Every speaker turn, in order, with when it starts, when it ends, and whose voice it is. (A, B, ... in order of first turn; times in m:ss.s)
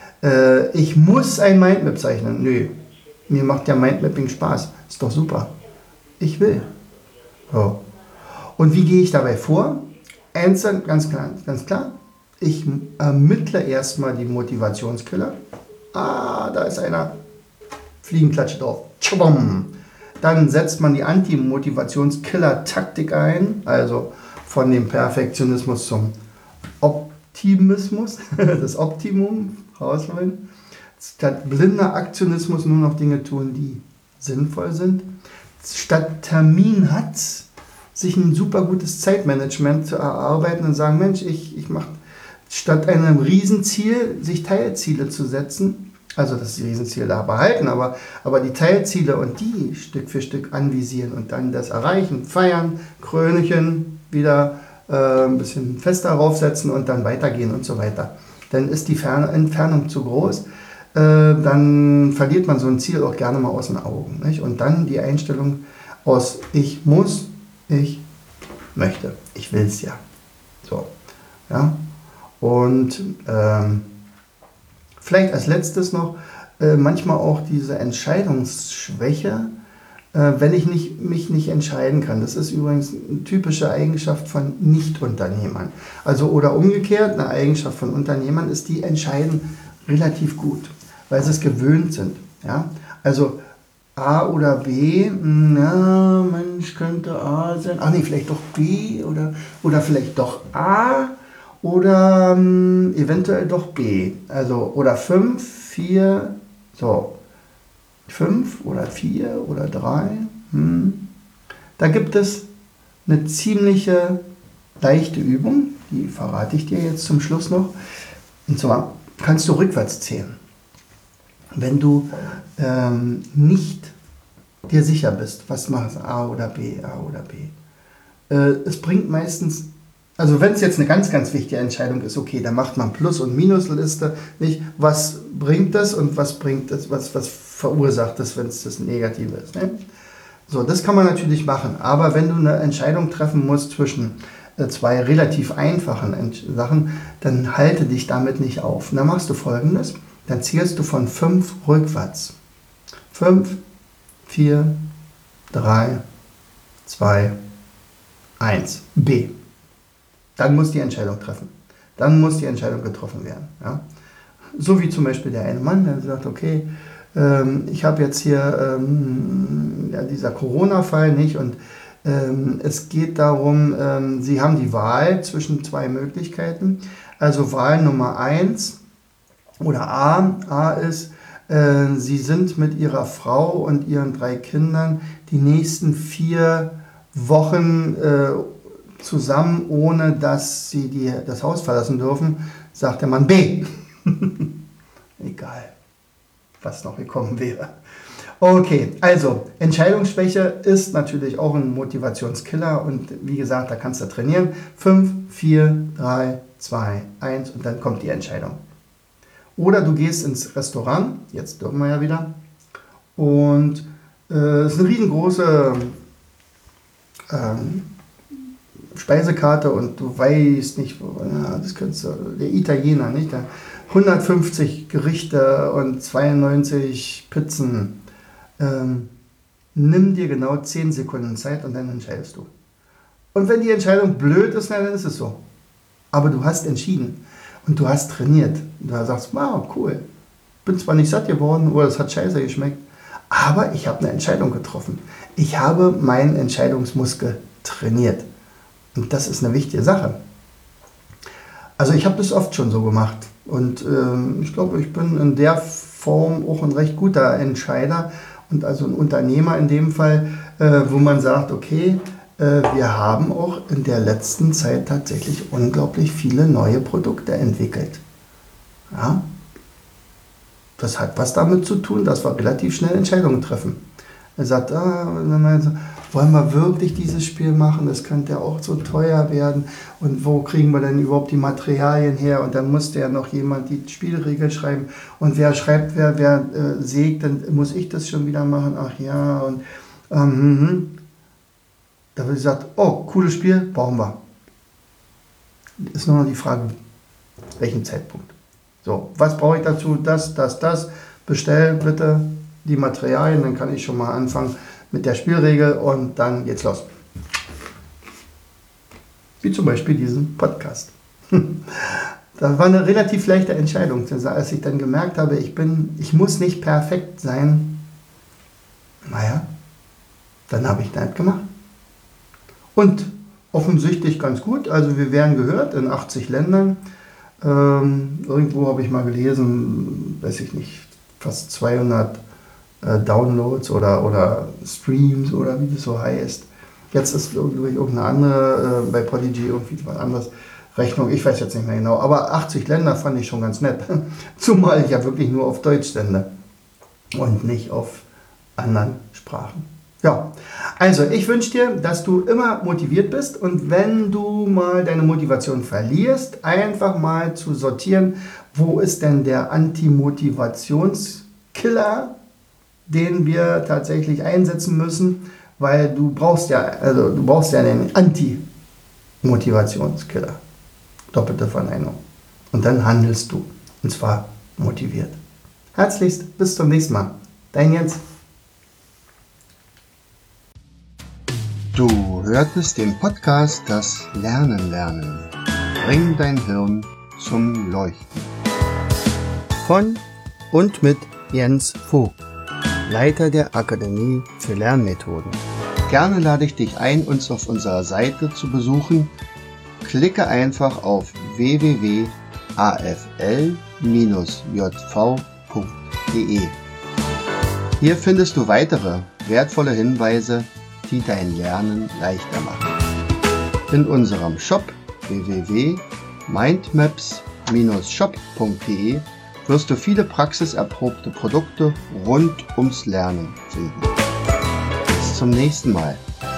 0:00.2-0:02.7 A
0:03.3-0:05.5 A
0:06.2-0:06.7 A
0:07.5-0:07.8 A
0:08.6-0:15.4 A
0:15.9-0:17.2 A
0:18.0-0:26.1 A
0:26.8-0:30.4 A
0:31.0-0:35.1 A
0:35.6-0:42.0 A
0:42.5-1:08.0 A
1:08.8-1:10.0 A
1:10.6-1:10.9 A
1:11.5-1:11.8 A
1:12.4-1:13.9 A
1:15.0-1:19.5 A
1:20.1-1:33.4 A
1:34.0-1:47.2 A
1:48.1-1:51.1 A
1:51.8-1:52.5 A
1:53.1-1:54.2 A
1:54.8-1:57.7 A
1:58.5-2:00.4 A
2:01.6-2:04.0 A
2:04.7-2:07.6 A
2:08.3-2:19.8 A
2:20.5-2:32.4 A
2:33.1-2:33.6 A
2:34.3-2:34.8 A
2:35.5-2:36.0 A
2:36.8-2:37.4 A
2:38.4-2:39.3 A
2:40.4-2:43.8 A
2:44.6-2:58.8 A
2:59.6-3:14.5 A
3:15.2-3:15.7 A
3:16.6-3:17.7 A
3:18.4-3:28.6 A
3:29.6-3:32.3 A
3:33.2-3:36.0 A
3:37.3-3:37.9 A
3:39.0-3:48.0 A
3:48.6-3:49.1 A
3:49.8-3:52.5 A
3:53.3-3:55.4 A
3:56.1-4:00.0 A
4:00.6-4:08.3 A
4:08.9-4:10.2 A
4:11.8-4:28.0 A
4:28.9-4:29.2 A
4:30.8-4:33.8 A
4:34.4-4:51.0 A
4:52.2-4:54.2 A
4:55.8-4:56.7 A
4:57.6-5:06.9 A
5:09.4-5:17.8 A
5:19.0-5:19.5 A
5:20.5-5:21.5 A
5:22.8-5:26.8 A
5:27.4-5:32.2 A
5:32.8-5:46.3 A
5:47.2-5:48.0 A
5:48.6-6:02.2 A
6:02.9-6:08.4 A
6:09.2-6:10.4 A
6:11.1-6:12.0 A
6:12.5-6:15.2 A
6:15.8-6:18.0 A
6:21.7-6:28.3 A
6:29.6-6:32.2 A
6:32.9-6:39.1 A
6:39.8-6:46.6 A
6:47.8-6:52.7 A
6:53.7-7:03.9 A
7:04.9-7:06.0 A